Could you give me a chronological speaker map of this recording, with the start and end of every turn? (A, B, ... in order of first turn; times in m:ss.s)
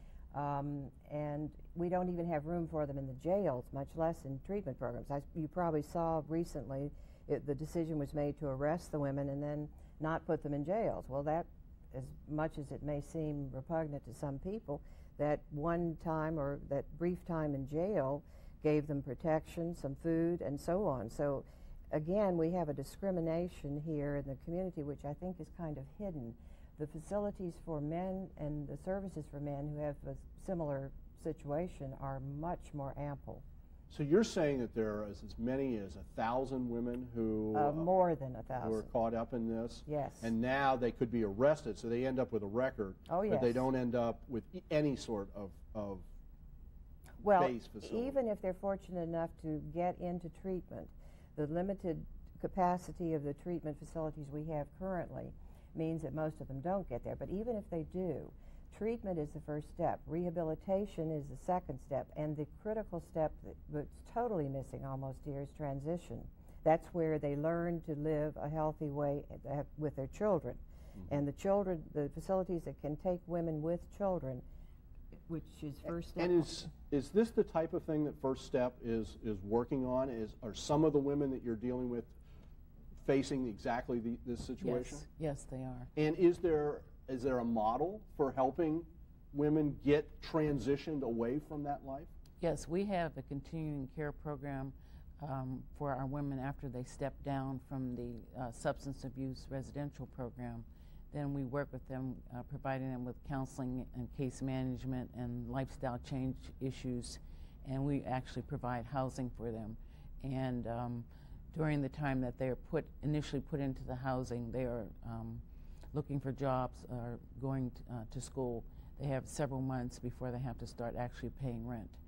0:00.3-0:33.4 A
0:33.9-0:37.9 B
0:37.5-0:38.9 A
0:38.6-0:46.1 B
0:39.8-0:40.3 A
0:43.1-0:43.6 A
0:47.2-1:14.4 A
0:47.4-0:48.2 B
1:15.3-1:16.5 A
1:16.2-1:22.2 B
1:23.0-1:25.0 B
1:24.6-1:25.9 C
1:26.0-1:32.1 B
1:32.4-2:02.0 C